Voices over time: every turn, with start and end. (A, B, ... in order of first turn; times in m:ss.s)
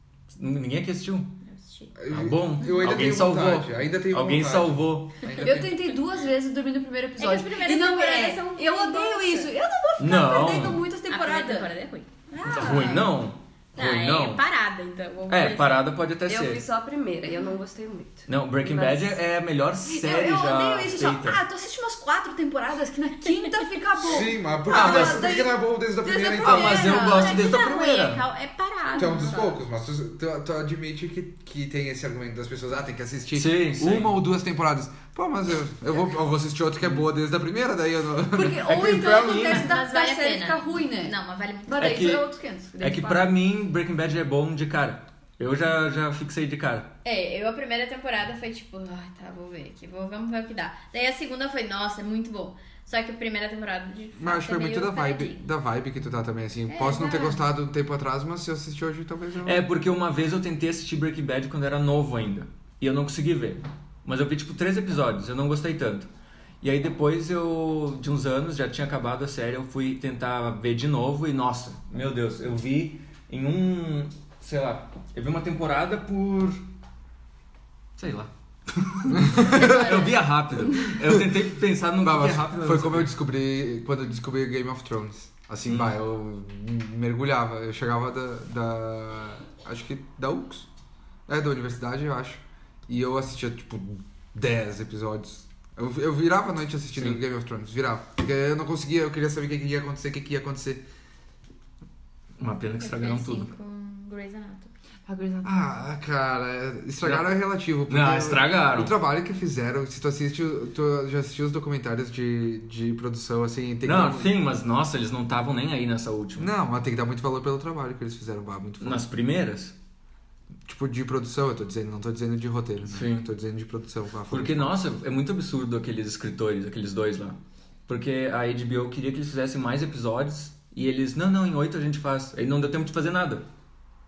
0:00.3-0:01.4 A
0:01.4-0:01.9 B
0:02.0-0:05.8 C
0:02.1-0:05.2 A
0:05.4-0:11.7 D
0:07.2-0:09.5 B
0:10.0-0:10.8 A
0:11.1-0:13.1 B
0:12.4-0:14.4 A
0:12.5-0:12.8 D
0:13.8-0:15.9 B
0:15.3-0:16.6 A
0:16.3-0:19.2 E
0:18.3-0:21.4 A
0:19.8-0:27.4 D
0:24.0-0:26.8 C
0:24.7-0:25.3 A
0:26.4-0:28.2 A
0:26.4-0:29.6 B
0:28.9-0:38.6 C
0:29.0-0:29.4 D
0:33.3-0:34.2 A
0:38.3-0:43.3 D
0:38.6-0:39.7 A
0:39.0-0:42.0 B
0:41.8-0:42.3 A
0:42.8-0:46.9 A
0:47.0-0:55.4 B
0:54.2-0:59.6 C
0:56.7-0:57.4 B
0:59.4-1:06.1 A
1:06.6-1:16.6 A
1:18.0-1:23.1 A
1:19.1-1:20.0 C
1:19.6-1:20.0 B
1:21.0-1:21.2 C
1:22.0-1:30.7 C
1:25.7-1:26.0 A
1:31.3-1:40.8 C
1:42.4-1:43.5 A
1:42.8-1:44.7 B
1:45.1-1:45.6 D
1:45.4-1:54.3 C
1:47.0-1:47.3 A
1:47.9-1:48.9 A
1:53.8-1:56.5 A
1:56.4-1:59.1 C
1:58.8-1:59.7 A
2:00.6-2:04.7 C
2:02.9-2:03.3 A
2:04.3-2:13.4 A